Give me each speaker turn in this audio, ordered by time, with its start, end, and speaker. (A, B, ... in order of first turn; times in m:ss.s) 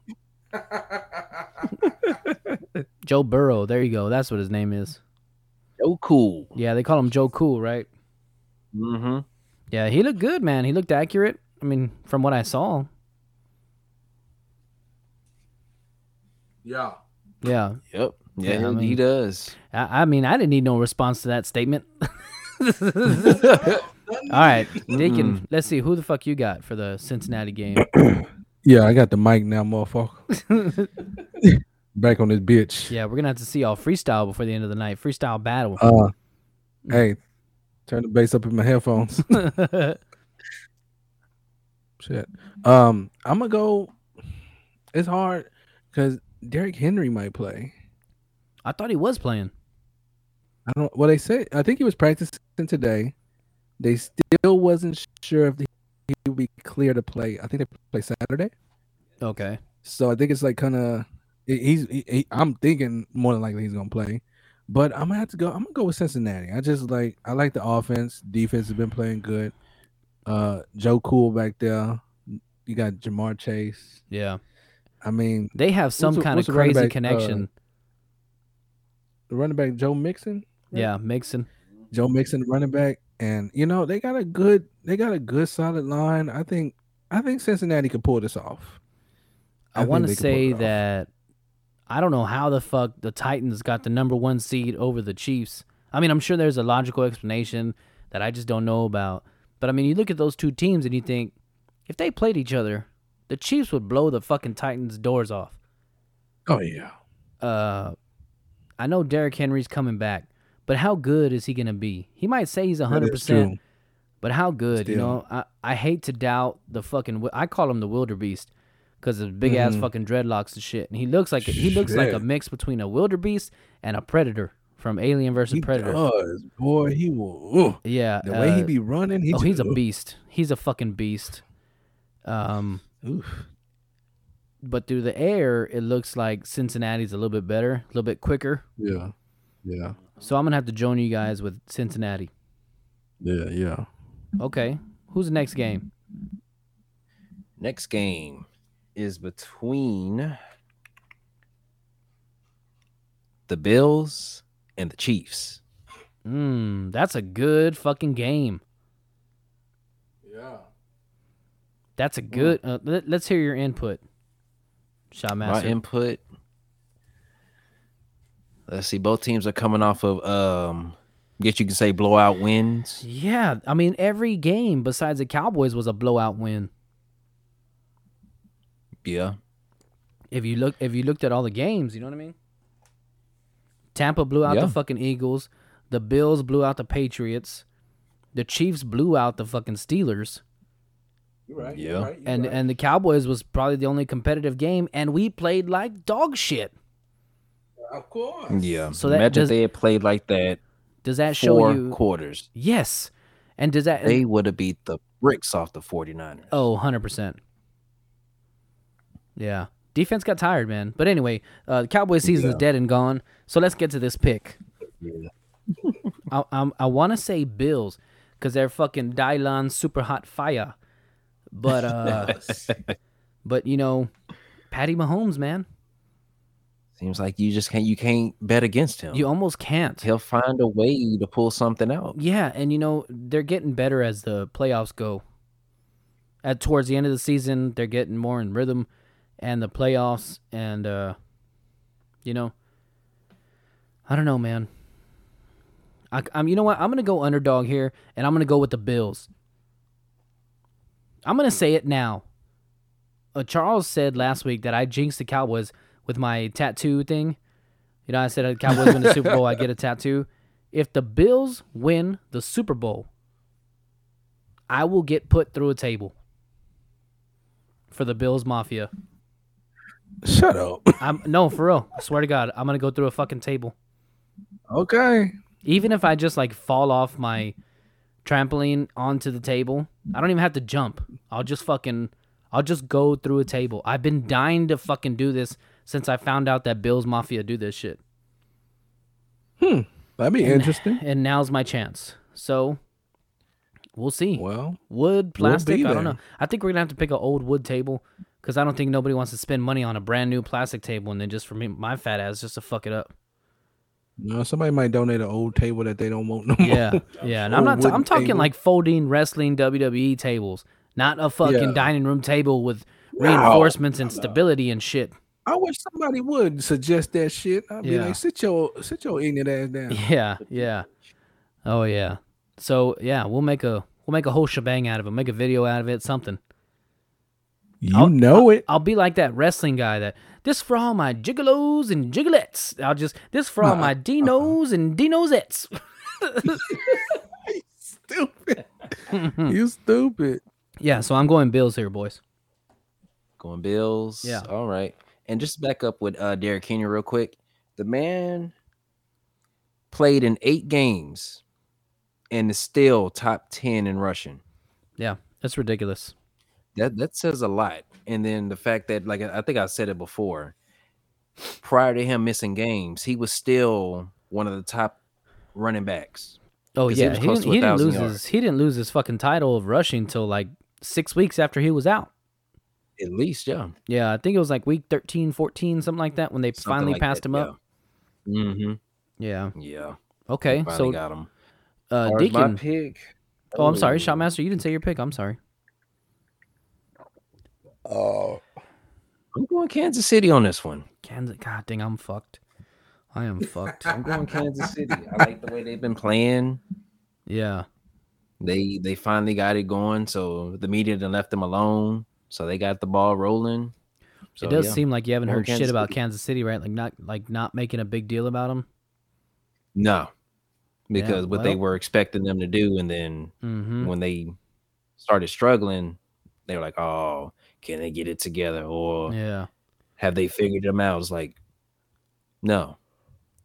0:00.5-0:01.9 A
0:03.0-0:05.0 B
0:05.8-0:06.5 C
0:06.6-0:07.9 B
0:08.7-0:09.2 C
0:09.7-0:12.9 B
0:16.6-0:17.0 A
0:17.4-0:17.8 B
0:17.9-0:19.6 C
0:18.4-0:19.0 B
0:19.7-0:23.4 B
0:23.2-0:24.9 A
0:23.2-0:23.8 C
0:24.3-0:27.8 B
0:24.9-0:25.4 C
0:27.8-0:30.3 A
0:30.4-0:30.9 B
0:31.2-0:32.9 A
0:32.9-0:35.8 B
0:35.8-0:36.1 A
0:36.9-0:37.2 A
0:37.9-0:39.4 A
0:39.3-0:40.0 B
0:42.0-0:44.0 A
0:44.9-0:47.7 A
0:48.6-0:49.5 B
0:50.6-0:53.1 A
0:53.8-0:58.5 A
0:59.2-0:59.6 B
0:59.8-1:09.5 A
1:10.2-1:14.0 A
1:14.1-1:14.4 B
1:15.0-1:17.4 A
1:15.5-1:17.5 B
1:19.3-1:20.9 A
1:20.7-1:21.5 B
1:21.9-1:28.8 A
1:29.7-1:31.1 B
1:29.8-1:30.7 A
1:31.9-1:41.3 B
1:41.9-1:45.6 B
1:46.5-1:46.9 A
1:47.4-1:48.0 B
1:48.8-1:53.5 B
1:52.9-1:53.6 A
1:54.2-1:58.5 B
1:54.7-1:55.2 A
1:59.0-2:06.0 B
1:59.4-1:59.9 A
2:01.4-2:02.2 A
2:05.5-2:09.8 A
2:07.8-2:08.7 B
2:09.3-2:11.4 B
2:12.2-2:12.8 B
2:13.0-2:13.5 A
2:14.6-2:18.6 B
2:18.8-2:19.1 A
2:19.6-2:20.0 A
2:20.2-2:22.3 B
2:23.2-2:23.9 A
2:24.4-2:25.9 B
2:27.6-2:30.4 C
2:33.5-2:35.6 C
2:36.2-2:38.6 B
2:40.2-2:40.7 A
2:42.0-2:44.0 B
2:45.1-2:45.8 B
2:45.4-2:46.2 C
2:48.7-2:53.0 C
2:53.0-2:56.7 B
2:59.0-2:59.4 C
3:00.3-3:02.3 B
3:03.9-3:07.6 B
3:04.4-3:04.8 C
3:08.3-3:10.4 B
3:11.5-3:12.6 A
3:11.7-3:12.1 C
3:12.2-3:16.7 B
3:17.8-3:18.6 A
3:18.5-3:20.6 C
3:18.9-3:19.6 B
3:21.0-3:22.0 B
3:21.3-3:22.5 C
3:22.5-3:24.2 B
3:24.0-3:26.6 C
3:26.5-3:27.4 B
3:29.4-3:34.6 B
3:32.2-3:32.6 C
3:35.0-3:35.3 C
3:36.3-3:40.8 B
3:41.5-3:42.4 B
3:42.0-3:43.0 C
3:42.4-3:42.7 A
3:43.4-3:44.1 B
3:44.7-3:45.6 B
3:47.0-3:49.2 C
3:49.1-3:50.0 B
3:50.0-3:52.2 C
3:52.1-3:55.2 B
3:56.4-3:58.9 B
3:59.4-4:01.2 B
4:02.2-4:02.5 B
4:04.1-4:04.7 B
4:06.1-4:09.3 B
4:11.2-4:12.2 B
4:13.3-4:17.4 B
4:18.1-4:23.1 B
4:18.7-4:19.4 A
4:24.7-4:26.1 B
4:27.9-4:28.9 B
4:30.2-4:31.0 A
4:31.0-4:33.7 B
4:34.7-4:35.3 A
4:35.6-4:37.5 B
4:38.2-4:48.0 B
4:49.6-4:51.0 A
4:50.4-4:52.8 B
4:54.0-5:03.1 B
4:54.3-4:54.8 A
4:55.4-4:56.2 A
5:04.2-5:08.5 A
5:06.6-5:15.1 B
5:11.4-5:11.9 A
5:13.2-5:14.3 A
5:15.4-5:20.0 A
5:17.8-5:18.2 B
5:19.9-5:20.9 B
5:20.4-5:20.7 C
5:21.6-5:26.4 B
5:27.8-5:28.6 A
5:27.9-5:36.8 B
5:33.6-5:34.5 A
5:36.4-5:40.4 A
5:39.1-5:39.6 B
5:40.8-5:42.2 B
5:43.4-5:48.5 C
5:49.9-5:51.4 C
5:52.3-5:54.4 C
5:55.0-5:56.1 B
5:56.8-6:00.5 C
6:01.6-6:05.0 C
6:05.5-6:06.4 C
6:06.8-6:12.1 B
6:06.9-6:08.2 C
6:13.0-6:13.7 C
6:13.9-6:17.5 B
6:16.6-6:17.5 C
6:18.3-6:18.8 C
6:19.2-6:19.5 B
6:19.6-6:20.0 C
6:20.3-6:21.0 B
6:20.5-6:21.3 C
6:21.9-6:22.6 B
6:22.0-6:24.3 C
6:23.6-6:25.4 B
6:27.8-6:28.4 A
6:29.3-6:30.8 C
6:31.0-6:32.4 B
6:33.1-6:33.9 B
6:33.7-6:35.3 A
6:33.9-6:36.6 C
6:37.3-6:37.7 B
6:38.4-6:43.7 C
6:44.4-6:45.9 C
6:44.4-6:48.6 B
6:49.7-6:50.1 C
6:50.9-6:54.4 C
6:50.9-6:51.6 B
6:53.4-6:53.9 B
6:55.0-6:59.1 C
6:59.1-6:59.5 B
7:00.0-7:01.4 C
7:02.4-7:02.8 C